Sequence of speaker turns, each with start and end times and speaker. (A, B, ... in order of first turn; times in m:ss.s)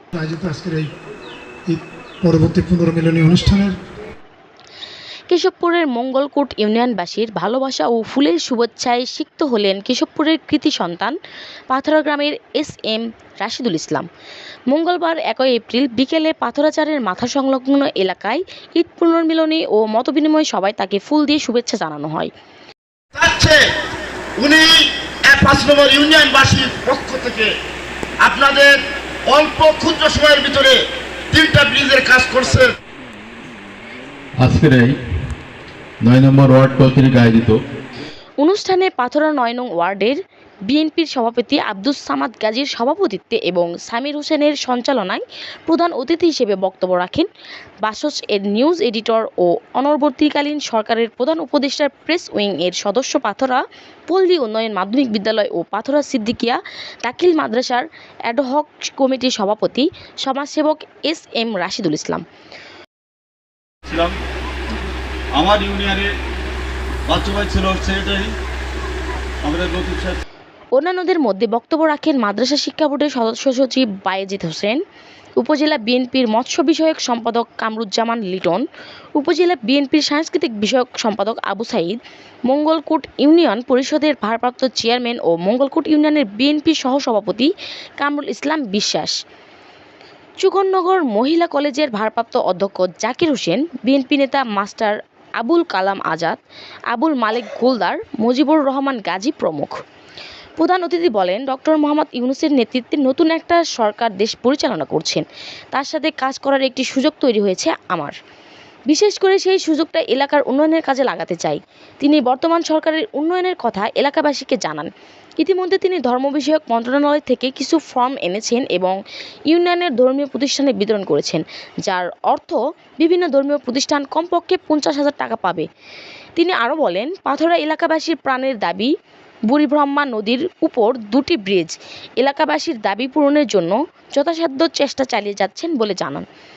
0:00.1-0:00.9 A
0:01.7-0:03.8 A
0:05.3-0:11.2 B
0:11.7-0:14.1 B
0:14.7-0:22.3 B
0:23.1-0:23.6 C
0:24.4-0:27.5 C
0:28.2-0:32.7 C
0:34.4-0:35.0 D
0:36.0-0:37.6 D
0:38.4-0:47.3 B
0:47.8-1:02.2 B
1:03.8-1:04.2 E
1:05.3-1:06.1 E
1:07.1-1:08.3 E
1:09.4-1:10.2 E
1:10.7-1:14.8 B
1:15.4-1:18.6 B
1:19.1-1:29.2 B
1:30.4-1:36.4 B
1:36.9-1:39.7 B
1:40.6-1:48.1 B
1:48.9-1:59.0 B
1:59.5-2:05.6 B
2:06.4-2:08.9 B
2:09.5-2:16.2 B